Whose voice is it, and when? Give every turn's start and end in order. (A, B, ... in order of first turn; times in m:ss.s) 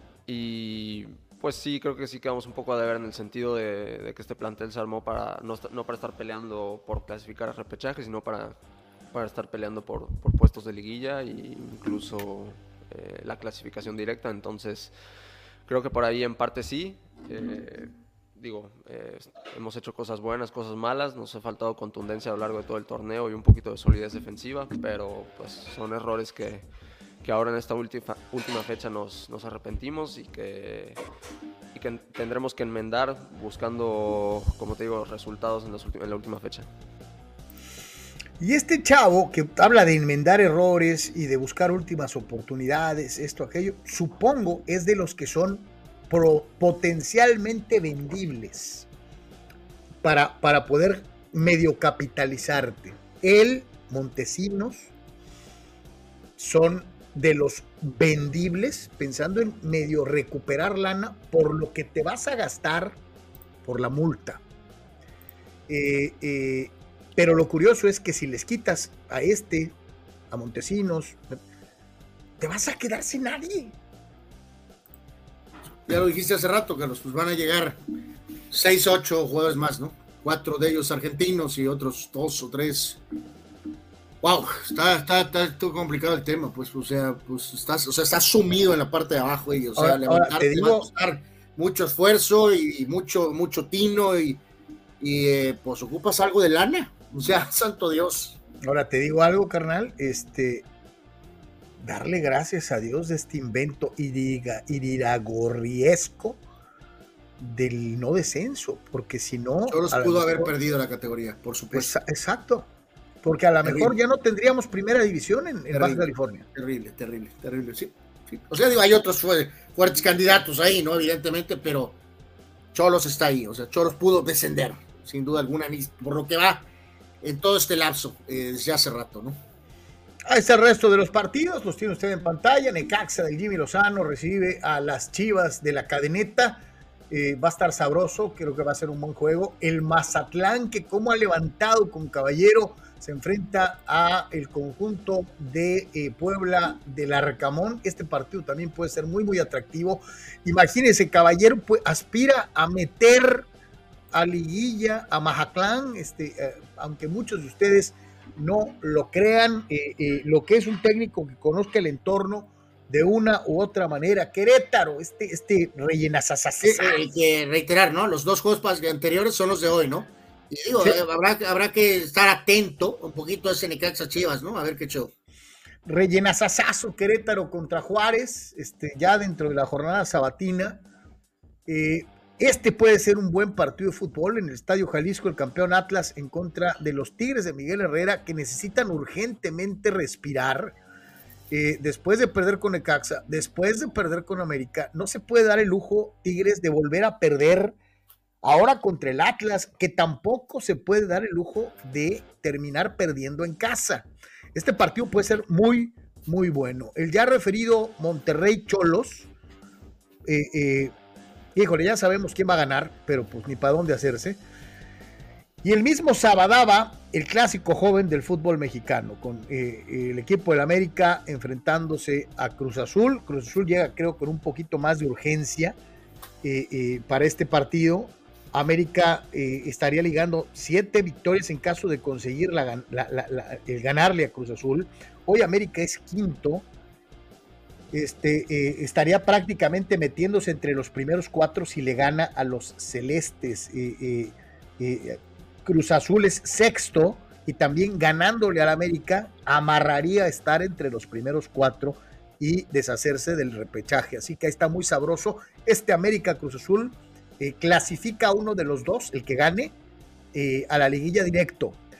0:00.2-0:15.0 A
0:15.6-0:31.0 A
0:31.7-0:36.7 A
0:38.4-0:48.9 B
0:50.0-0:54.9 B
0:56.4-1:03.0 B
1:03.6-1:04.4 B
1:05.7-1:09.7 B
1:10.3-1:11.4 B
1:12.4-1:13.8 B
1:15.9-1:17.8 C
1:18.5-1:23.0 C
1:24.2-1:34.4 C
1:29.8-1:30.9 B
1:35.0-1:38.4 C
1:38.6-1:40.6 B
1:41.8-1:46.4 B
1:47.4-1:50.5 B
1:49.7-1:51.9 C
1:51.7-1:52.7 B
1:53.2-1:56.4 B
1:53.6-1:53.9 C
1:55.7-2:02.0 C
2:02.7-2:06.6 C
2:07.2-2:09.4 C
2:10.3-2:33.5 B
2:34.1-2:47.0 B
2:46.6-2:55.1 C
2:55.8-3:00.8 B
3:01.7-3:10.8 B
3:11.5-3:17.8 B
3:18.4-3:29.3 B
3:30.2-3:30.9 B
3:31.5-3:34.4 B
3:35.6-3:45.8 B
3:46.4-3:56.7 B
3:57.9-4:19.7 B
4:20.3-4:21.8 B